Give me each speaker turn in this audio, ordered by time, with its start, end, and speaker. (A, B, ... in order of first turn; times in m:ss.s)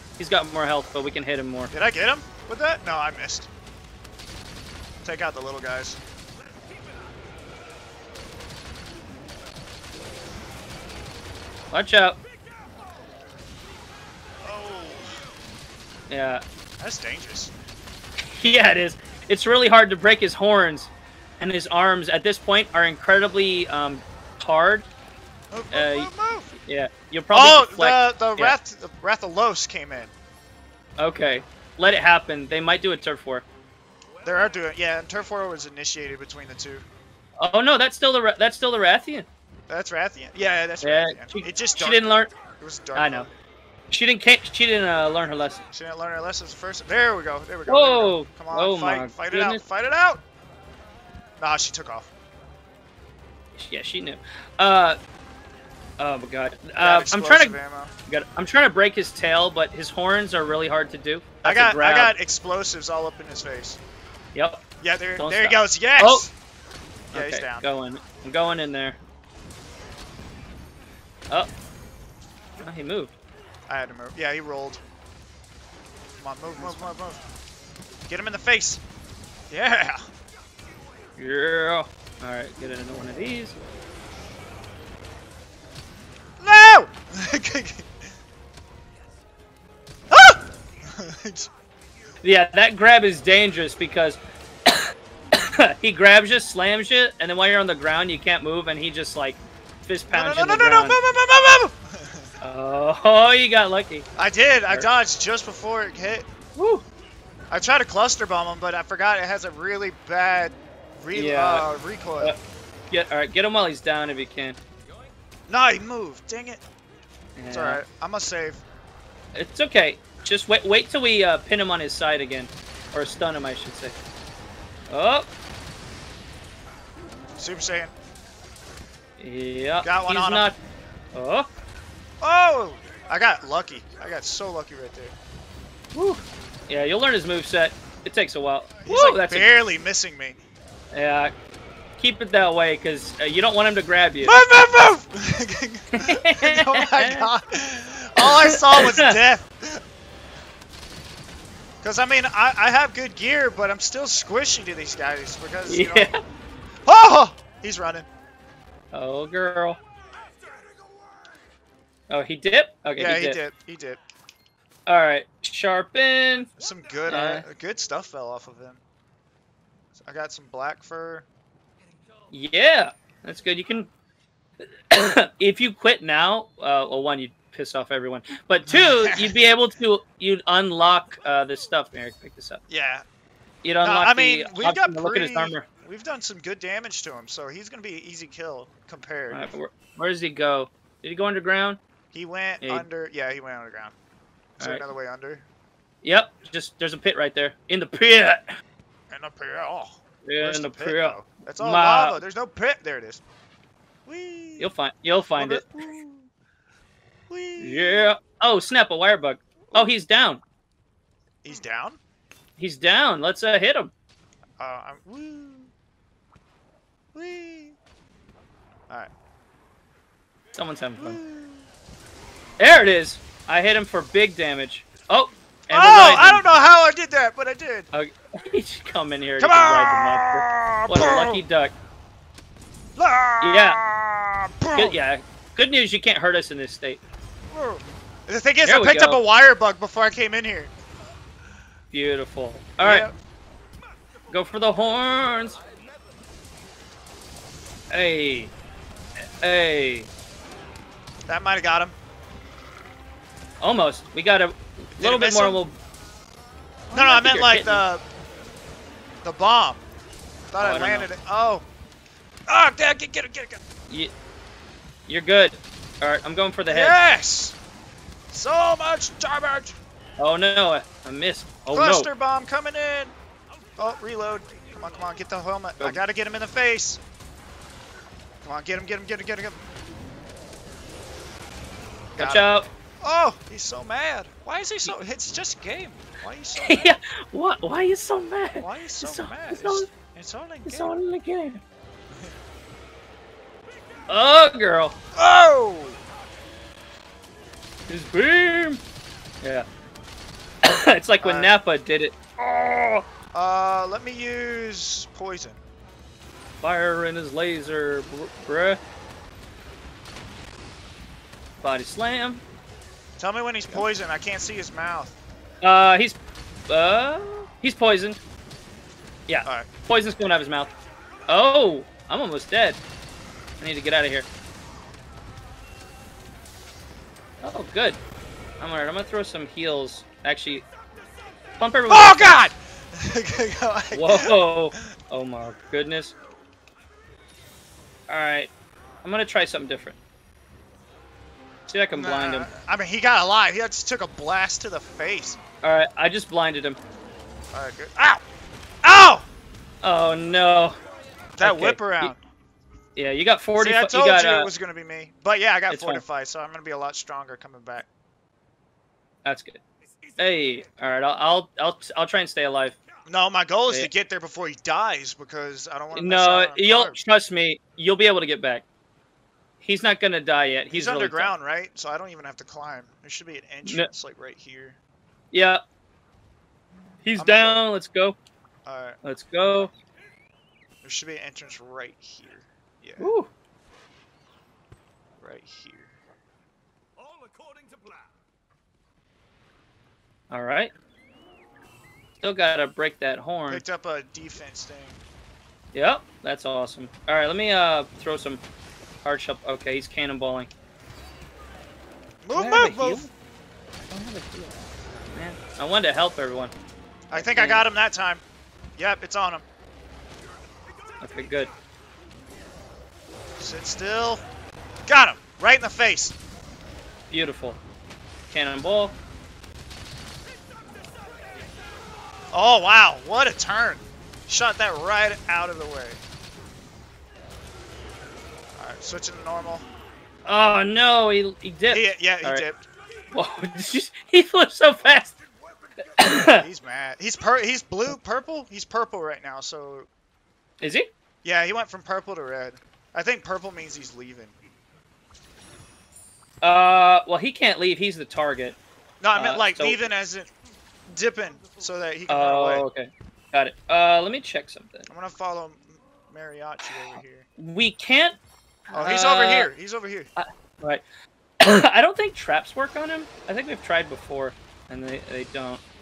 0:00.2-0:01.7 A
0:01.7-0:03.5 B
0:05.0-0:06.0 B
0:06.4-0:07.1 C
0:11.7-0:12.2 A
0:14.4-0:15.2 B
0:16.1-0:16.4 A
0:16.8-0:17.5 B
0:18.2-0:24.9 A
0:25.5-0:26.5 B
0:25.7-0:26.1 A
0:26.6-0:28.6 A
0:27.3-0:30.1 B
0:31.0-0:33.5 A
0:34.2-0:34.5 C
0:34.2-0:36.9 B
0:37.4-0:39.3 A
0:39.7-0:43.3 B
0:40.8-0:42.3 A
0:43.0-0:43.3 A
0:43.9-0:45.7 A
0:45.7-0:50.2 B
0:47.7-0:49.6 A
0:51.4-0:52.1 B
0:53.6-0:55.0 A
0:56.0-1:02.2 A
0:56.8-0:57.9 B
1:01.4-1:03.8 B
1:04.3-1:04.6 A
1:04.8-1:06.3 B
1:05.2-1:06.3 A
1:07.1-1:07.7 B
1:07.1-1:09.0 A
1:12.6-1:13.1 A
1:13.7-1:14.8 B
1:16.2-1:17.2 B
1:16.6-1:16.9 A
1:18.1-1:18.8 B
1:19.5-1:20.1 B
1:21.2-1:23.6 A
1:26.4-1:27.9 B
1:30.1-1:31.5 B
1:32.2-1:41.0 A
1:40.1-1:42.3 B
1:42.4-1:44.1 A
1:44.2-1:46.3 B
1:46.6-1:46.8 A
1:47.5-1:52.4 B
1:51.1-1:51.7 A
1:52.9-1:54.6 A
1:54.9-1:55.2 C
1:55.5-1:56.6 B
1:57.4-1:57.8 A
1:57.5-1:58.6 B
1:59.4-2:04.0 A
2:04.9-2:05.3 A
2:07.4-2:08.0 B
2:09.2-2:10.6 A
2:09.8-2:10.5 B
2:11.1-2:11.5 A
2:12.2-2:15.2 B
2:15.9-2:19.5 A
2:18.8-2:20.4 B
2:20.9-2:21.3 A
2:22.0-2:24.4 A
2:24.2-2:29.8 B
2:26.0-2:27.3 A
2:28.2-2:29.2 A
2:31.8-2:36.1 B
2:35.7-2:36.2 A
2:36.8-2:38.1 B
2:38.9-2:39.8 A
2:40.1-2:41.4 C
2:42.1-2:43.4 A
2:43.0-2:44.0 B
2:44.9-2:46.5 A
2:46.6-2:47.1 C
2:46.6-2:48.8 B
2:47.1-2:47.5 A
2:50.0-2:51.3 B
2:51.8-2:52.4 C
2:52.3-2:53.9 A
2:54.9-3:02.6 A
2:58.7-2:59.3 B
3:01.1-3:01.4 C
3:02.7-3:03.0 B
3:03.6-3:05.6 A
3:03.8-3:09.5 B
3:09.3-3:11.8 A
3:12.1-3:14.0 B
3:14.6-3:15.5 B
3:14.6-3:14.9 A
3:16.0-3:18.5 A
3:19.1-3:23.2 B
3:20.2-3:22.2 A
3:24.1-3:24.7 B
3:24.6-3:25.6 A
3:25.4-3:26.3 B
3:27.3-3:28.1 B
3:27.6-3:30.4 A
3:29.7-3:30.0 B
3:31.4-3:32.0 B
3:32.6-3:33.9 A
3:34.6-3:35.7 B
3:37.1-3:37.8 B
3:40.6-3:41.2 A
3:41.0-3:41.7 B
3:42.6-3:46.4 A
3:45.7-3:47.9 B
3:47.9-3:51.7 A
3:49.4-3:51.4 B
3:53.0-3:55.0 B
3:53.4-3:53.8 A
3:54.7-3:57.0 A
3:57.5-4:00.7 B
3:58.6-3:59.2 A
4:01.9-4:03.1 A
4:02.8-4:03.2 B
4:04.3-4:05.6 A
4:04.9-4:06.4 C
4:07.9-4:08.5 A
4:09.4-4:10.1 A
4:11.3-4:12.0 B
4:13.6-4:15.8 A
4:15.0-4:15.6 B
4:16.9-4:18.0 B
4:16.9-4:17.8 A
4:19.2-4:19.8 B
4:20.5-4:21.6 B
4:20.6-4:21.1 A
4:22.5-4:23.6 B
4:25.1-4:27.0 A
4:26.7-4:27.6 B
4:28.3-4:29.8 B
4:30.2-4:32.1 A
4:31.7-4:33.2 B
4:33.8-4:37.0 B
4:34.4-4:34.8 C
4:38.4-4:39.6 B
4:42.2-4:47.0 B
4:42.2-4:42.7 A
4:46.6-4:49.9 A
4:48.6-4:50.9 B
4:50.7-4:51.6 A
4:54.1-4:55.0 A
4:55.1-4:56.0 B
4:57.9-4:58.8 A
4:59.4-4:59.7 A
5:00.6-5:03.1 A
5:01.2-5:01.5 B
5:03.3-5:05.6 B
5:06.6-5:08.8 A
5:11.6-5:12.4 A
5:13.2-5:15.1 B
5:15.6-5:16.2 A
5:16.7-5:18.2 A
5:19.3-5:20.7 A
5:21.3-5:22.8 A
5:23.6-5:24.3 A
5:27.4-5:28.0 A
5:28.6-5:30.6 A
5:31.6-5:32.3 A
5:31.9-5:34.8 B
5:33.9-5:36.1 A
5:38.1-5:38.5 A
5:39.0-5:40.0 A
5:41.7-5:42.5 A
5:41.9-5:45.4 B
5:45.6-5:46.8 A
5:47.5-5:48.2 B
5:48.8-5:49.3 B
5:49.8-5:50.8 A
5:51.4-5:52.2 B
5:51.4-5:52.1 A
5:53.0-5:54.5 A
5:53.6-5:57.9 B
5:55.7-5:56.0 A
5:59.2-5:59.6 A
5:59.9-6:00.8 C
6:00.2-6:02.8 A
6:03.1-6:07.0 B
6:05.9-6:08.6 A
6:09.6-6:11.3 A
6:10.7-6:14.8 B
6:15.3-6:15.6 A
6:17.0-6:18.2 A
6:17.2-6:17.6 B
6:18.7-6:19.0 B
6:19.0-6:19.7 A
6:20.8-6:23.1 B
6:23.0-6:23.3 A
6:25.2-6:25.9 B
6:27.0-6:28.1 C
6:30.3-6:30.7 A
6:32.2-6:33.6 A
6:33.5-6:35.0 B
6:35.7-6:38.4 A
6:39.0-6:40.5 A
6:42.2-6:43.1 B
6:42.3-6:43.1 A
6:43.9-6:46.5 A
6:47.1-6:48.2 B
6:47.1-6:47.7 A
6:48.8-6:49.4 B
6:51.0-6:51.5 A
6:53.4-6:54.2 B
6:54.9-6:56.2 B
6:57.1-6:57.6 A
6:58.3-6:59.0 A
7:00.7-7:01.5 C
7:02.3-7:06.0 B
7:08.6-7:09.7 B
7:10.3-7:12.4 A
7:11.7-7:12.7 B
7:13.1-7:15.2 A
7:15.6-7:15.9 C
7:16.0-7:16.5 A
7:16.0-7:19.9 B
7:20.6-7:20.9 A
7:21.2-7:24.3 B
7:26.4-7:28.6 A
7:29.0-7:30.3 B
7:29.1-7:29.8 A
7:30.9-7:32.7 B
7:32.1-7:34.9 A
7:34.9-7:37.3 B
7:37.4-7:38.2 A
7:38.7-7:39.5 A
7:38.7-7:40.1 B
7:40.2-7:40.8 A
7:41.4-7:45.6 A